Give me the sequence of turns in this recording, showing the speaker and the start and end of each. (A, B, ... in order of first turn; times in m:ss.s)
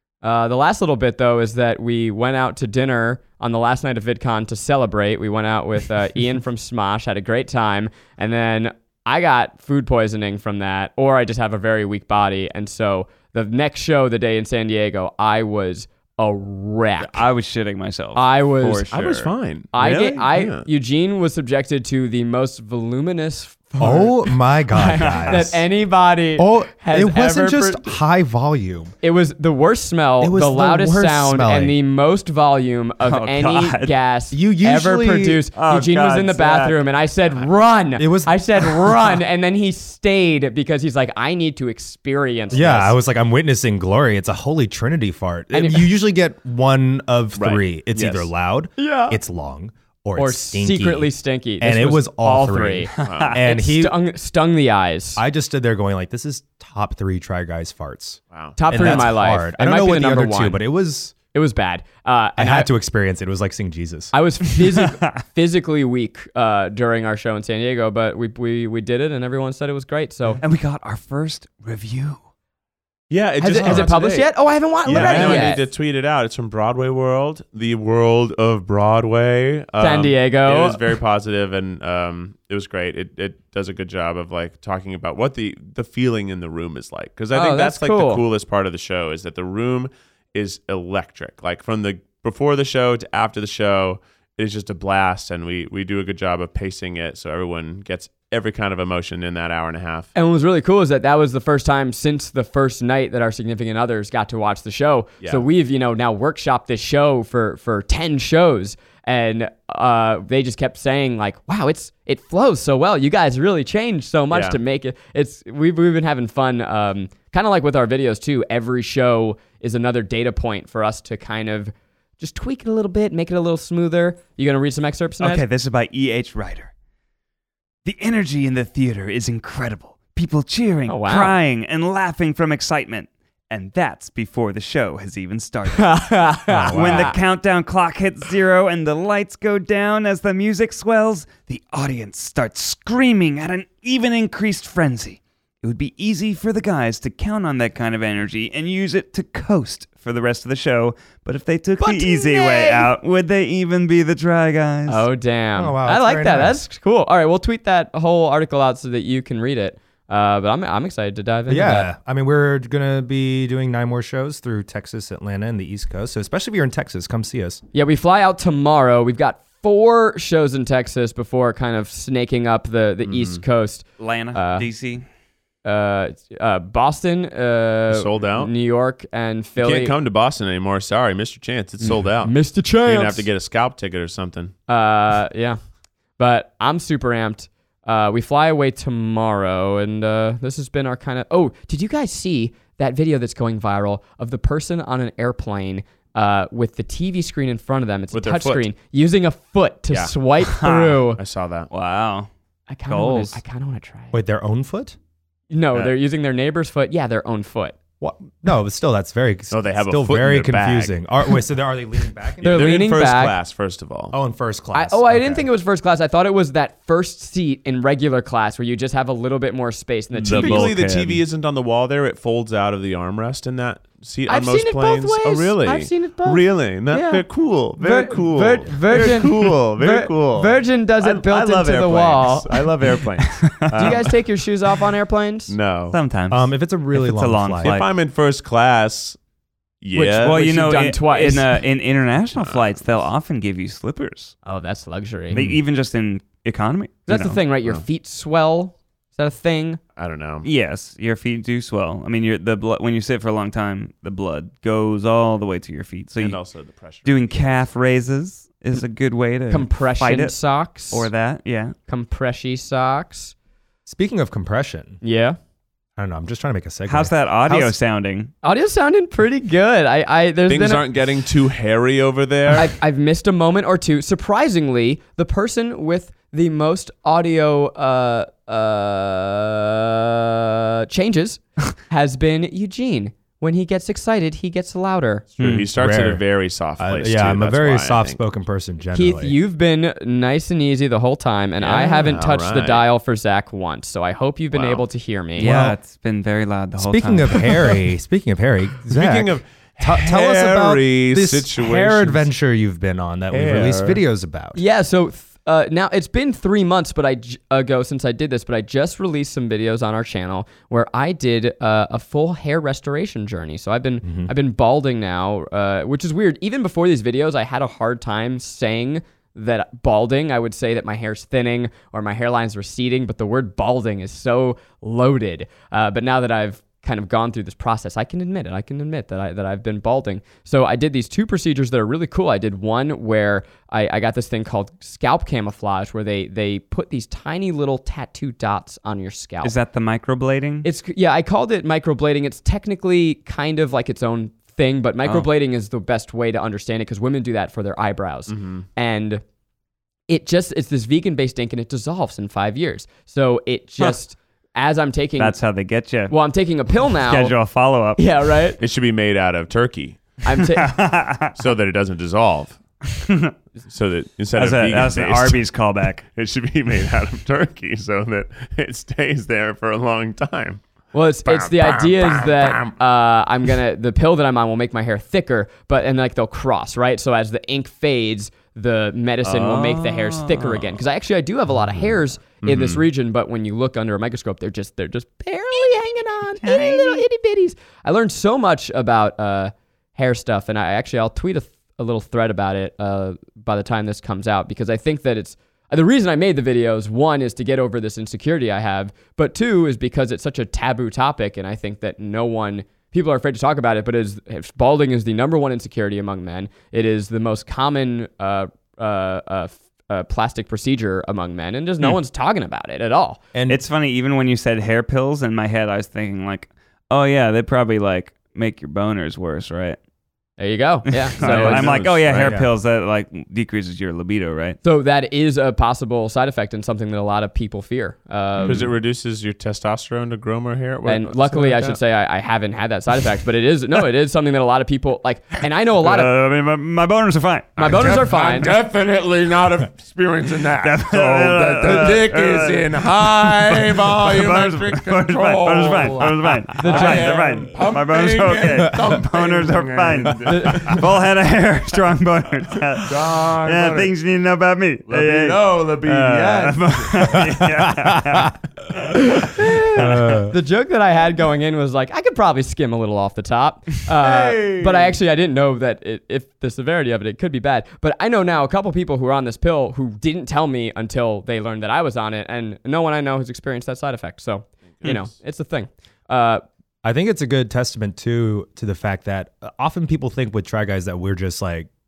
0:00.2-0:17.2 A
0:17.0-0:20.3 B
0:18.2-0:18.9 A
0:18.9-0:19.8 C
0:19.7-0:28.0 A
0:20.3-0:20.7 C
0:23.8-0:25.6 D
0:24.9-0:25.4 B
0:26.4-0:28.9 D
0:29.0-0:43.0 A
0:30.2-0:31.8 D
0:33.0-0:33.9 B
0:34.3-0:35.4 D
0:35.6-0:36.8 B
0:38.0-0:38.4 D
0:42.5-0:54.0 D
0:45.5-0:45.9 A
0:47.4-0:48.3 C
0:48.8-0:49.2 A
0:50.2-0:55.2 A
0:53.0-0:53.4 B
0:53.0-0:53.4 C
0:55.2-1:01.2 D
0:58.3-0:59.0 C
0:58.6-1:00.6 A
1:01.3-1:02.7 A
1:02.4-1:04.1 D
1:04.1-1:10.4 A
1:10.4-1:12.2 B
1:13.1-1:14.3 C
1:13.4-1:15.6 A
1:13.6-1:13.9 D
1:14.9-1:40.1 C
1:15.0-1:15.5 B
1:19.8-1:20.8 A
1:27.3-1:28.2 A
1:40.2-2:05.4 A
1:54.3-1:54.6 C
2:05.2-2:06.7 B
2:07.8-2:35.1 B
2:10.9-2:11.4 A
2:15.8-2:17.2 A
2:16.5-2:16.9 D
2:31.8-2:32.9 A
2:34.9-2:41.9 A
2:35.6-2:36.6 D
2:41.5-2:47.6 D
2:47.7-2:54.7 A
2:53.0-2:53.4 C
2:54.0-2:55.0 B
2:55.6-2:59.9 A
2:57.9-2:58.5 C
2:59.6-3:04.5 C
3:01.8-3:03.3 A
3:04.7-3:05.6 A
3:06.2-3:21.2 A
3:18.1-3:18.7 C
3:19.9-3:20.1 C
3:20.4-3:21.0 B
3:21.2-3:21.7 C
3:21.7-3:22.3 B
3:22.7-3:24.2 A
3:22.9-3:23.4 B
3:24.1-3:25.0 D
3:25.5-3:27.8 A
3:28.0-3:32.9 D
3:29.5-3:30.9 C
3:32.4-3:33.4 A
3:32.4-3:34.2 C
3:34.1-3:35.5 D
3:34.7-3:40.7 A
3:40.1-3:41.2 B
3:40.2-3:54.1 C
3:44.3-3:47.2 A
3:47.8-3:52.6 A
3:53.3-3:54.0 B
3:53.8-3:55.5 A
3:55.5-3:56.0 C
3:55.9-3:57.9 B
3:56.3-3:57.8 D
3:57.6-3:59.2 C
3:59.8-4:00.5 C
3:59.9-4:01.5 A
4:00.2-4:04.4 B
4:02.3-4:03.1 C
4:04.4-4:05.4 A
4:05.3-4:07.4 B
4:07.1-4:09.8 A
4:10.0-4:10.5 C
4:10.4-4:16.4 B
4:16.2-4:17.6 C
4:17.0-4:20.4 B
4:19.5-4:21.1 A
4:20.9-4:21.8 B
4:21.9-4:23.3 A
4:23.9-4:25.0 D
4:25.0-4:25.4 A
4:26.0-4:27.8 D
4:26.9-4:28.3 B
4:28.4-4:30.8 A
4:30.5-4:32.7 C
4:32.5-4:45.3 A
4:45.4-4:48.2 C
4:45.4-4:45.7 B
4:45.7-4:46.2 D
4:46.8-4:49.4 D
4:48.9-4:55.5 A
4:51.6-4:52.8 C
4:54.5-4:54.8 C
4:55.4-4:57.8 B
4:55.4-4:55.8 D
4:56.8-5:04.6 D
4:58.9-5:02.3 C
5:03.3-5:04.0 C
5:04.6-5:39.5 A
5:14.0-5:14.3 D
5:39.4-5:40.7 B
5:40.6-5:49.2 A
5:48.3-5:48.6 C
5:50.1-5:55.4 A
5:55.2-5:56.2 B
5:56.1-5:57.4 A
5:56.8-5:58.0 B
5:58.0-5:58.6 A
5:58.6-6:00.0 C
6:00.2-6:00.8 A
6:00.4-6:01.4 B
6:01.4-6:02.6 C
6:02.9-6:03.3 B
6:03.7-6:05.4 C
6:04.3-6:06.0 B
6:06.0-6:10.6 C
6:10.9-6:53.2 A
6:11.2-6:12.8 C
6:19.3-6:20.6 B
6:22.4-6:22.8 C
6:26.4-6:27.0 B
6:53.3-6:53.6 D
6:53.5-6:59.8 B
7:00.4-7:01.8 A
7:00.9-7:04.6 B
7:01.2-7:02.4 C
7:02.1-7:02.5 D
7:04.6-7:08.7 A
7:08.4-7:11.8 C
7:10.9-7:16.1 A
7:15.8-7:18.0 B
7:17.6-7:30.9 C
7:17.6-7:18.5 A
7:20.6-7:38.4 B
7:26.6-7:27.2 A
7:30.2-7:30.8 A
7:32.8-7:33.9 C
7:34.9-7:37.2 C
7:37.3-7:38.3 D
7:38.9-7:56.4 A
7:39.7-7:40.4 D
7:44.0-7:45.0 C
7:54.8-7:55.1 C
7:56.8-8:01.7 D